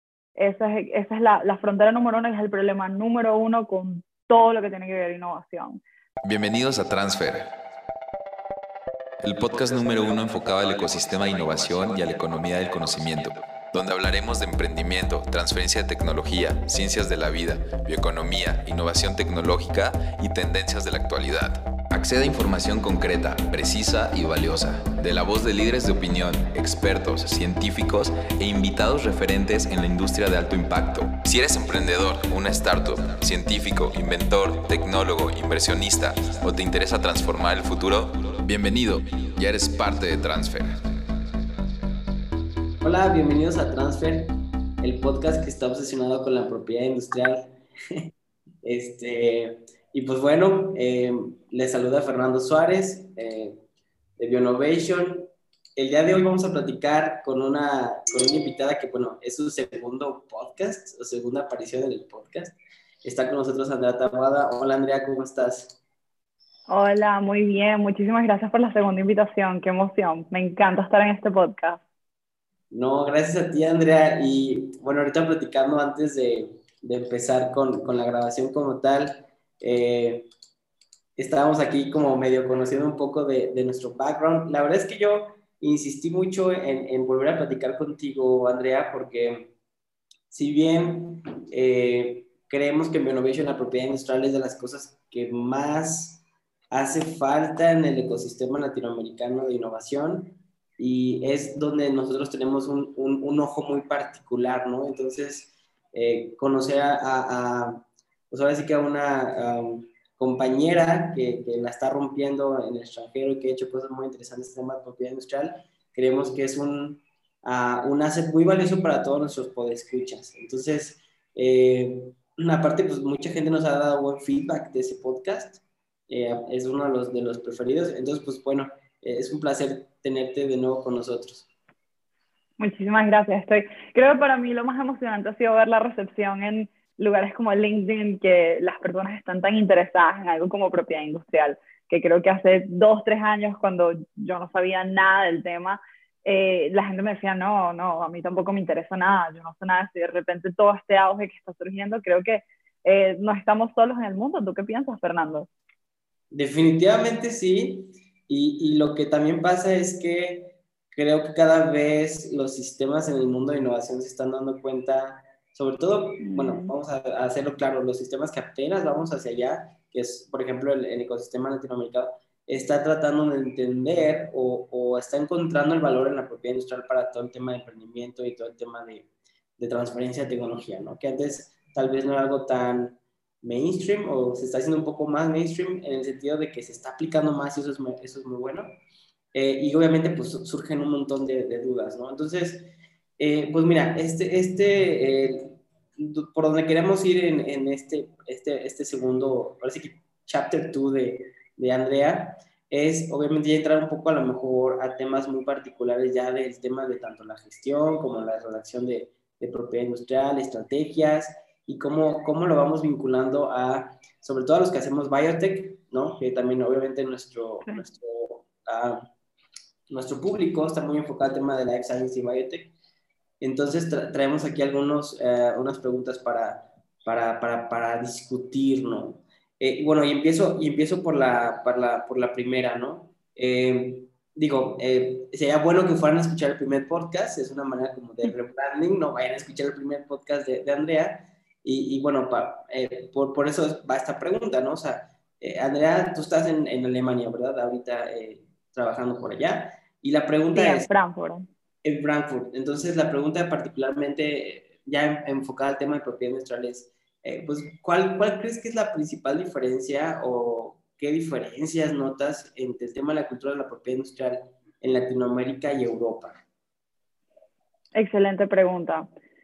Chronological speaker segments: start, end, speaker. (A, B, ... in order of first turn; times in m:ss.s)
0:00.4-0:05.8 A
0:06.2-0:07.5 B
0:09.2-0:40.8 B
0:42.8-0:48.1 C
0:48.6-0:53.6 C
0:54.2-1:05.8 C
1:06.7-1:11.8 A
1:12.7-1:20.3 C
1:21.2-1:29.5 C
1:30.3-2:11.5 C
2:12.6-2:35.5 A
2:36.3-2:59.1 C
2:46.2-2:46.7 A
2:59.6-3:08.8 C
3:09.3-3:39.1 C
3:39.9-3:42.7 C
3:43.4-4:10.9 C
4:10.5-4:11.5 A
4:11.8-4:26.4 C
4:28.0-4:29.1 A